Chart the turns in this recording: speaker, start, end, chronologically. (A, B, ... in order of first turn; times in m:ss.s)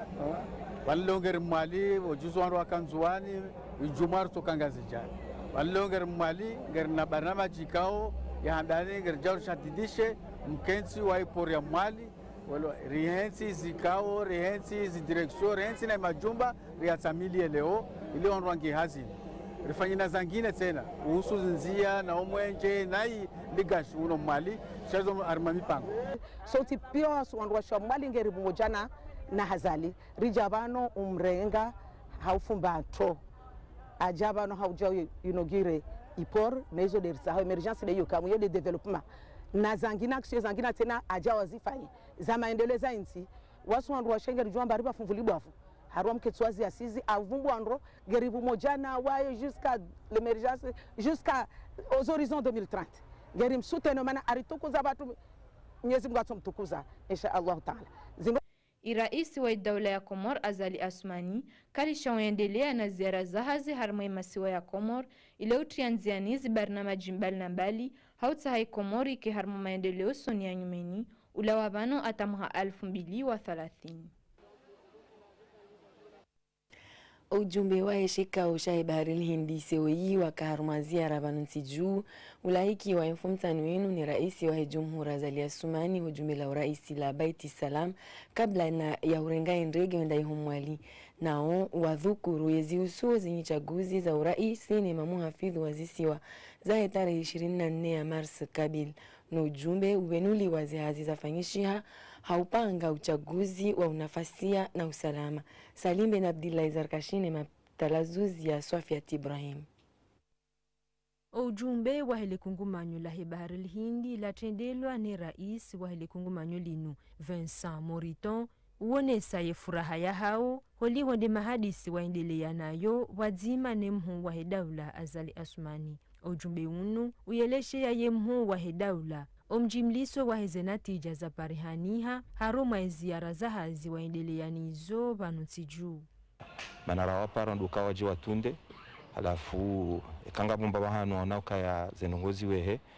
0:00.2-0:26.0 A
0:26.4-0:33.2 B
0:34.0-0:55.2 B
0:55.8-0:58.4 B
0:58.8-1:14.1 C
1:17.3-1:49.7 D
1:51.3-2:16.1 E
2:16.9-2:18.6 F
2:19.1-2:22.8 F